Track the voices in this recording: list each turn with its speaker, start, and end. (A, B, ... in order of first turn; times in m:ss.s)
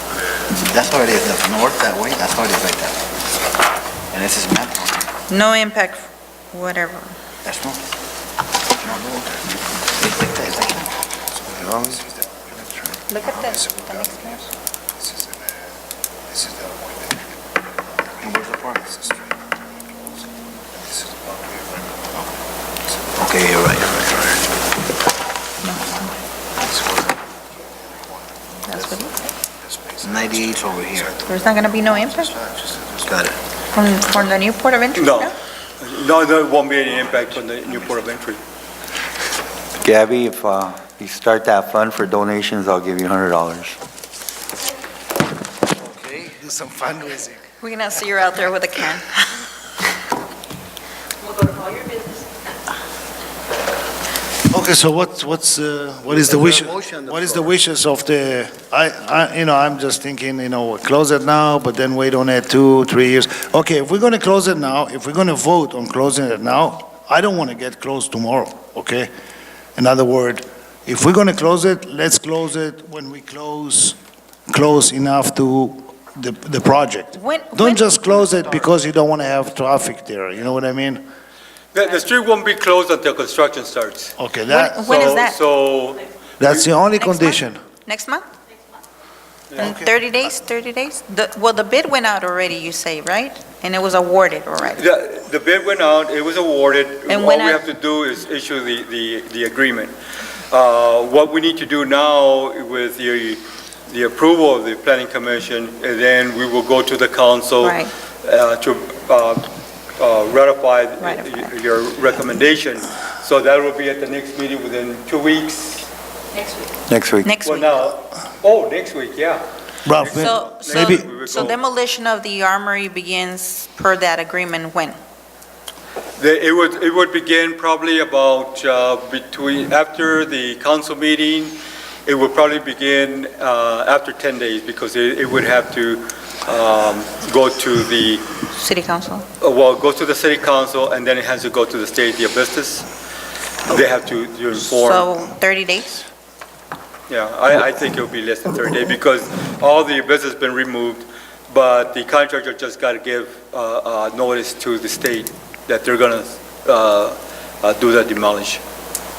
0:00.5-0:03.0 A
0:04.1-0:05.1 A
0:05.3-0:07.1 B
0:07.4-0:07.8 A
0:08.8-0:09.4 A
0:09.9-0:10.9 A
0:11.4-0:15.7 C
0:13.1-0:14.4 B
0:16.3-0:17.3 C
0:18.0-0:22.4 C
0:18.2-0:18.8 A
0:22.9-0:23.2 C
0:23.2-0:24.2 A
0:24.1-0:24.4 C
0:25.6-0:26.1 B
0:26.6-0:28.2 C
0:28.7-0:29.2 B
0:28.7-0:33.4 C
0:30.0-0:31.1 A
0:31.3-0:32.3 B
0:33.1-0:33.4 A
0:33.7-0:35.4 B
0:35.0-0:38.4 D
0:39.8-0:43.8 E
0:45.8-0:46.3 A
0:46.2-0:47.4 C
0:47.6-0:49.5 B
0:54.5-1:09.1 C
0:56.1-0:57.5 A
1:09.8-1:14.0 C
1:14.5-1:21.0 C
1:17.1-1:18.3 B
1:21.7-1:24.1 D
1:24.2-1:25.1 C
1:24.5-1:25.4 B
1:24.8-1:26.6 D
1:26.4-1:27.6 C
1:27.0-1:28.2 B
1:29.6-1:29.9 C
1:29.6-1:34.9 B
1:34.7-1:39.9 D
1:37.1-1:37.6 B
1:40.5-1:55.9 D
1:47.6-1:47.9 B
1:51.0-1:51.5 B
1:56.9-1:57.3 E
1:57.2-1:57.9 B
1:57.4-1:59.4 D
1:59.8-2:01.6 C
2:00.0-2:01.6 D
2:00.1-2:05.0 B
2:06.2-2:18.3 D
2:18.5-2:19.2 B
2:19.4-2:22.9 D
2:23.7-2:25.1 D
2:24.8-2:26.1 B
2:27.1-2:38.6 D